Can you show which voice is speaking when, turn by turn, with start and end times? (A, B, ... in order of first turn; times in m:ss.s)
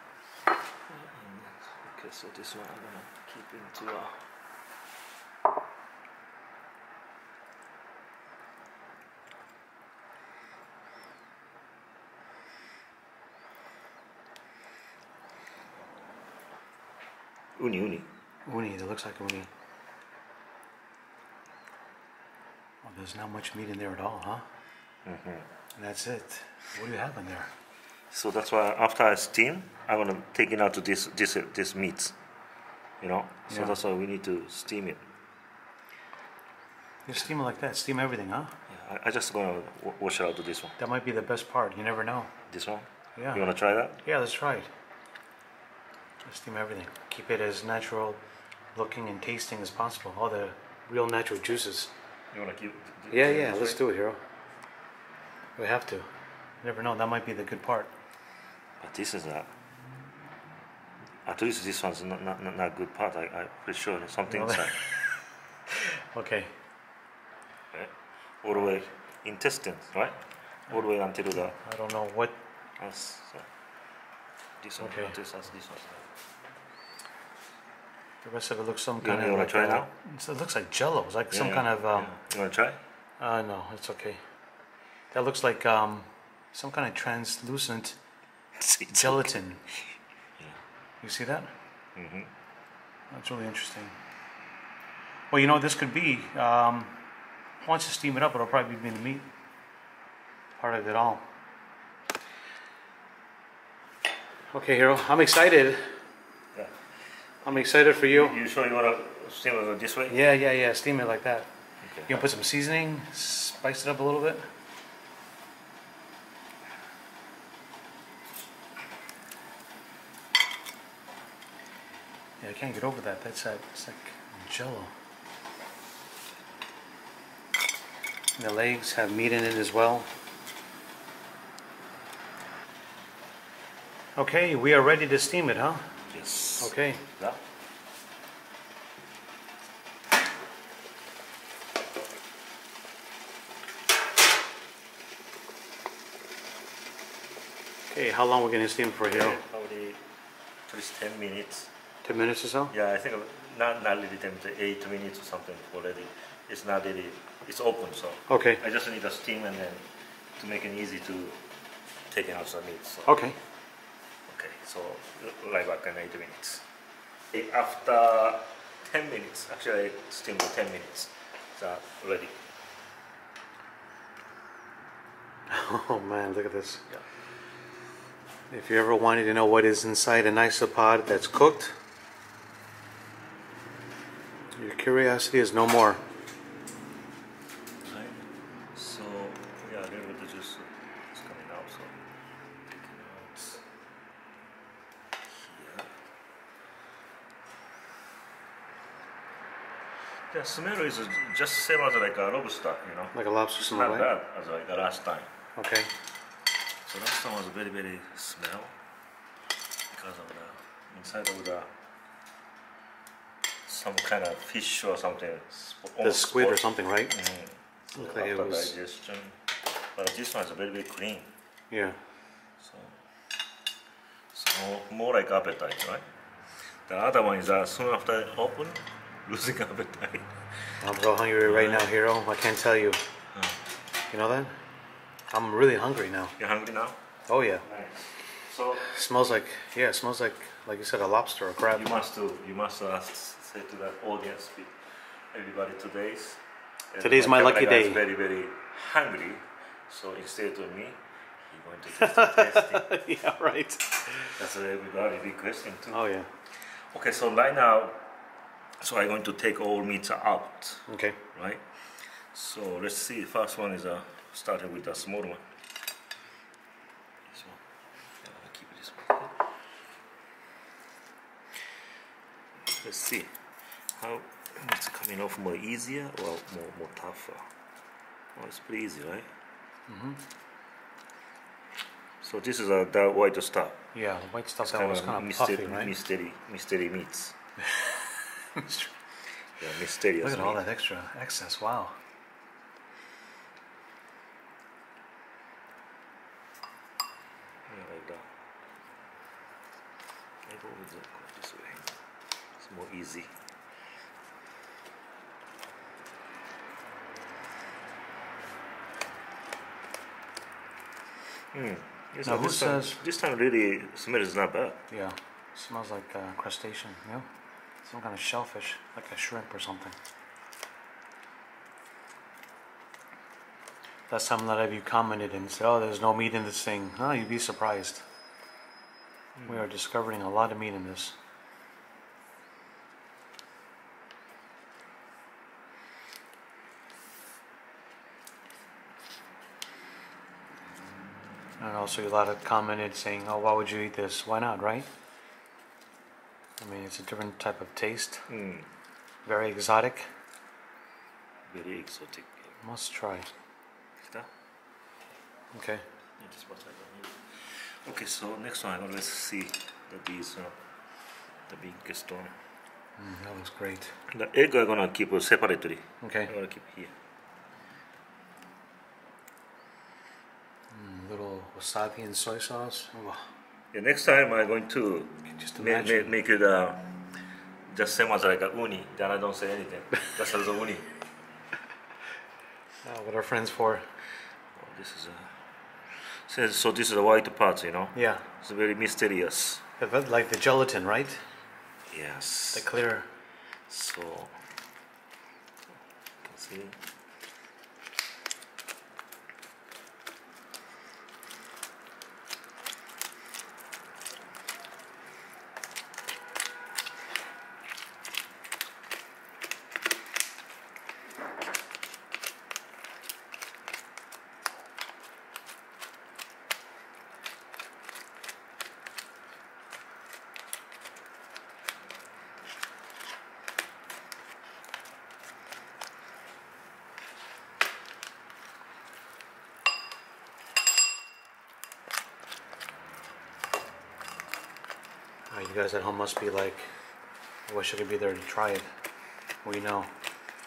0:00.9-0:04.2 A
0:17.6-0:18.1 A
0:18.4-0:19.5 B
0:22.8-0:24.4 B
0:25.0-0:25.4 A
0:25.7-0:27.5 B
0:28.1-0:32.2 A
0:33.0-0:35.0 A
0:33.5-0:33.8 B
0:37.0-0:38.6 B
0:38.7-0:40.8 A
0:40.8-0:42.3 B
0:42.5-0:44.0 A
0:43.2-0:43.5 B
0:44.0-0:44.7 B
0:46.2-0:48.2 B
0:48.7-0:51.9 B
0:52.3-0:53.8 A
0:53.1-0:54.2 B
0:55.6-0:56.1 B
0:56.6-0:57.9 B
0:58.8-0:59.5 A
1:01.2-1:04.8 A
1:04.3-1:05.2 B
1:05.8-1:06.5 B
1:07.7-1:10.2 A
1:08.5-1:08.8 B
1:10.7-1:11.6 A
1:11.6-1:12.4 B
1:12.8-1:13.5 A
1:14.6-1:16.1 A
1:14.8-1:15.1 B
1:18.2-1:22.1 B
1:19.0-1:19.9 A
1:21.3-1:22.8 A
1:23.2-1:24.2 B
1:25.1-1:28.0 B
1:28.6-1:29.3 A
1:28.9-1:29.8 B
1:31.0-1:31.5 B
1:32.0-1:32.3 A
1:33.1-1:33.9 B
1:35.3-1:37.0 B
1:37.6-1:39.3 B
1:40.6-1:41.2 B
1:44.5-1:45.9 B
1:46.5-1:50.2 A
1:47.4-1:48.4 B
1:50.1-1:51.5 B
1:51.8-1:52.2 A
1:52.1-1:54.4 B
2:02.4-2:04.9 B
2:08.4-2:10.1 B
2:14.2-2:15.9 B
2:16.1-2:17.4 A
2:16.6-2:17.0 B
2:27.9-2:29.4 B
2:29.0-2:30.0 A
2:30.7-2:31.7 A
2:32.0-2:32.7 B
2:32.7-2:41.4 A
2:38.3-2:38.6 B
2:42.1-2:43.2 A
2:43.0-2:43.4 B
2:44.3-2:46.6 A
2:47.3-2:52.4 A
2:55.5-2:56.8 B
2:58.5-3:01.8 B
3:04.5-3:06.0 B
3:07.8-3:12.0 A
3:12.7-3:13.6 A
3:15.3-3:15.9 A
3:20.3-3:25.3 A
3:23.1-3:24.1 B
3:25.6-3:25.9 B
3:26.8-3:28.7 A
3:29.9-3:31.7 A
3:33.6-3:39.4 A
3:36.0-3:37.1 B
3:37.9-3:38.7 B
3:39.9-3:41.3 A
3:41.7-3:42.0 B
3:42.6-3:43.0 A
3:44.3-3:46.0 A
3:46.8-3:50.4 A
3:50.8-3:53.0 B
3:51.4-3:51.9 A
3:53.3-3:53.6 A
3:54.1-3:54.5 B
3:55.3-3:56.4 B
3:56.4-3:57.0 A
3:57.3-3:57.6 B
3:57.6-3:58.8 A
3:58.8-4:02.0 B
4:01.7-4:06.4 A
4:06.9-4:12.8 A
4:07.0-4:08.0 B
4:11.9-4:14.3 B
4:14.4-4:16.0 A
4:15.9-4:16.3 B
4:16.5-4:18.0 A
4:18.8-4:21.6 A
4:20.9-4:21.2 B
4:22.2-4:25.5 A
4:27.3-4:27.6 A
4:28.2-4:29.3 A
4:32.6-4:33.3 A
4:34.0-4:37.5 A
4:38.3-4:39.3 A
4:39.9-4:40.2 B
4:42.2-4:43.8 A
4:43.9-4:45.9 B
4:44.7-4:47.3 A
4:48.5-4:48.9 B
4:49.6-4:50.6 A
4:50.2-4:52.0 B
4:57.6-4:58.3 A
5:00.4-5:01.9 A
5:02.6-5:03.3 A
5:11.5-5:14.8 A
5:12.2-5:13.0 B
5:14.9-5:17.3 B
5:17.8-5:20.0 B
5:24.1-5:28.0 B
5:29.4-5:29.6 A
5:29.4-5:31.2 B
5:41.6-5:44.9 B
5:46.6-5:48.3 B
5:48.3-5:48.7 A
5:49.2-5:50.1 B
5:51.5-5:52.5 A
5:52.6-5:53.3 B
5:54.0-5:54.3 A
5:55.5-5:55.8 B
5:56.2-6:00.6 A
6:01.5-6:02.3 A
6:03.0-6:03.9 B
6:04.1-6:06.9 A
6:06.0-6:06.3 B
6:10.7-6:13.2 B
6:13.7-6:16.9 A
6:15.3-6:16.1 B
6:17.7-6:20.9 A
6:22.8-6:23.9 B
6:24.5-6:25.4 A
6:25.9-6:29.6 A
6:27.9-6:28.2 B
6:29.8-6:31.2 B
6:31.9-6:32.6 A
6:32.5-6:33.1 B
6:33.7-6:34.4 A
6:36.2-6:36.8 A
7:15.3-7:16.7 B
7:17.5-7:18.7 B
7:19.4-7:19.9 B